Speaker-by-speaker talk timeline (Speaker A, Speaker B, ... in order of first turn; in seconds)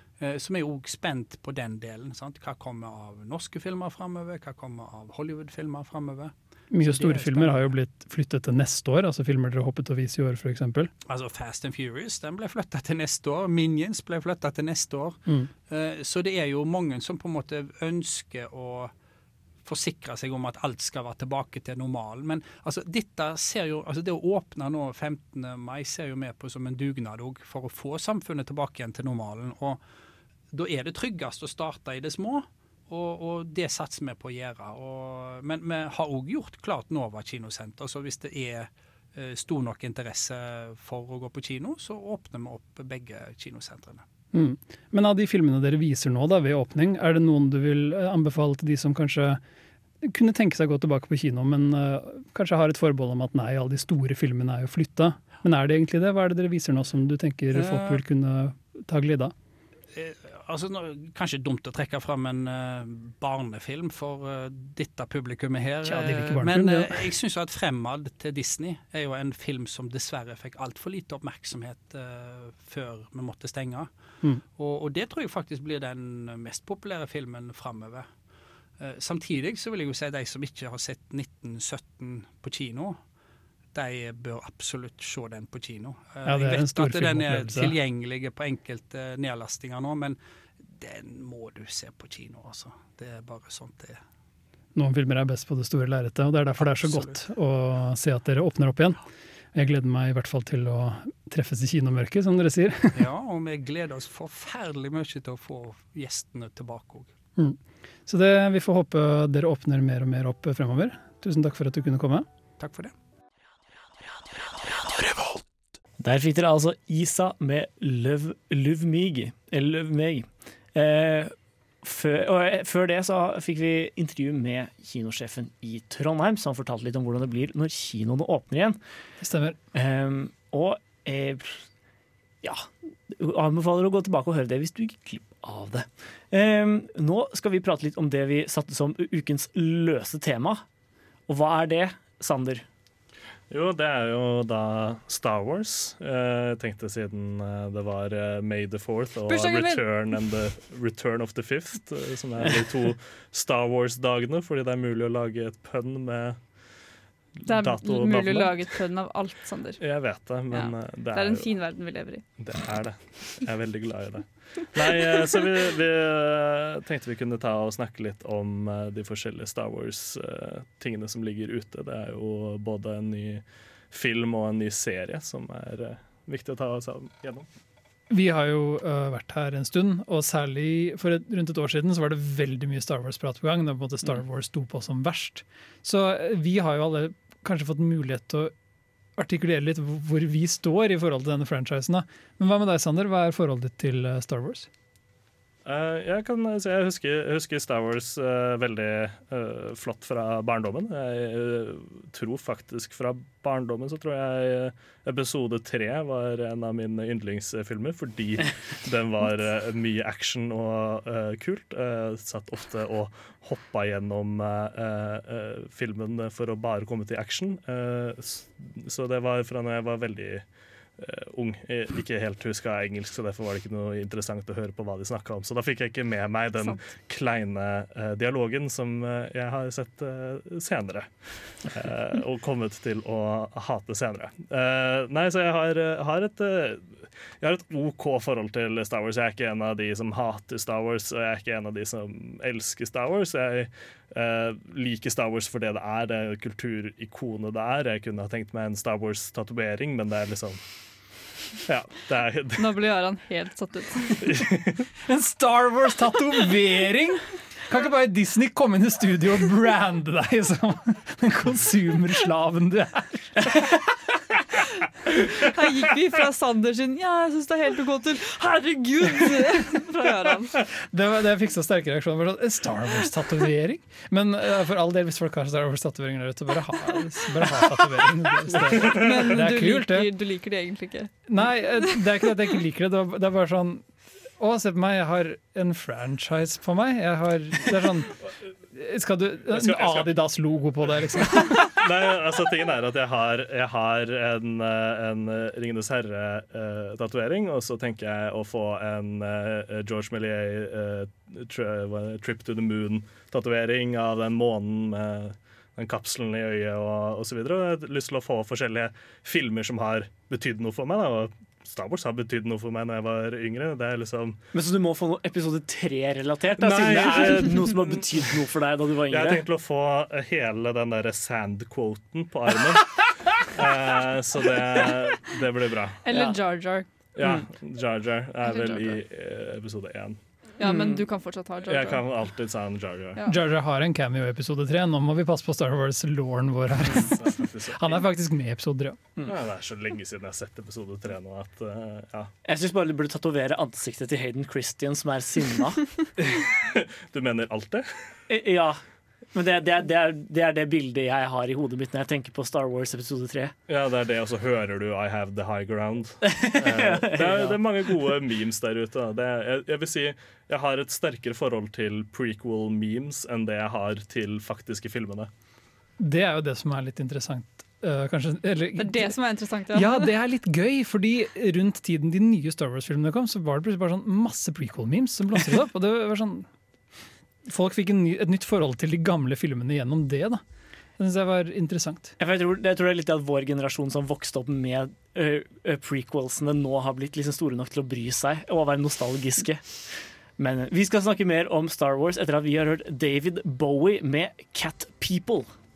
Speaker A: 0.2-7.7, 11.1-18.9, 19.6-29.8, 30.5-44.0, 57.5-58.0, 59.9-73.9, 74.6-78.1, 78.8-83.0, 83.7-94.0, 96.6-97.2, 102.9-107.1, 112.6-112.9
Speaker B: 6.7-10.9, 44.3-49.4, 50.0-59.3, 65.8-67.1, 86.2-87.8, 94.8-99.0, 99.5-103.1, 107.4-112.3, 129.2-129.6, 178.1-188.5, 189.2-194.7, 255.1-263.4, 270.9-280.1, 281.3-288.2, 288.7-291.8, 333.3-339.0, 366.0-369.2, 369.7-376.5, 377.5-380.4, 381.0-382.2
Speaker C: 116.0-121.3, 121.8-128.8, 129.7-131.7, 132.4-140.6, 141.3-142.7, 314.5-319.4, 327.2-327.5, 330.6-331.0, 342.4-345.9, 348.3-348.8, 349.3-353.5, 356.3-357.6, 382.2-395.5
Speaker D: 143.5-156.4, 157.4-158.8, 159.8-161.5, 162.4-177.5, 195.7-220.4, 221.0-250.6, 251.7-252.7, 254.2-254.9, 289.5-290.2, 291.5-314.4, 316.6-318.3, 319.1-326.0, 327.2-330.2, 331.7-333.2, 337.0-337.9, 339.3-342.3, 346.2-347.9, 353.7-365.3
Speaker E: 149.3-149.8, 157.5-159.8, 160.5-162.2, 252.6-254.3, 265.3-270.6, 278.8-281.1, 326.1-326.9, 328.4-329.0, 330.6-332.0, 368.8-370.1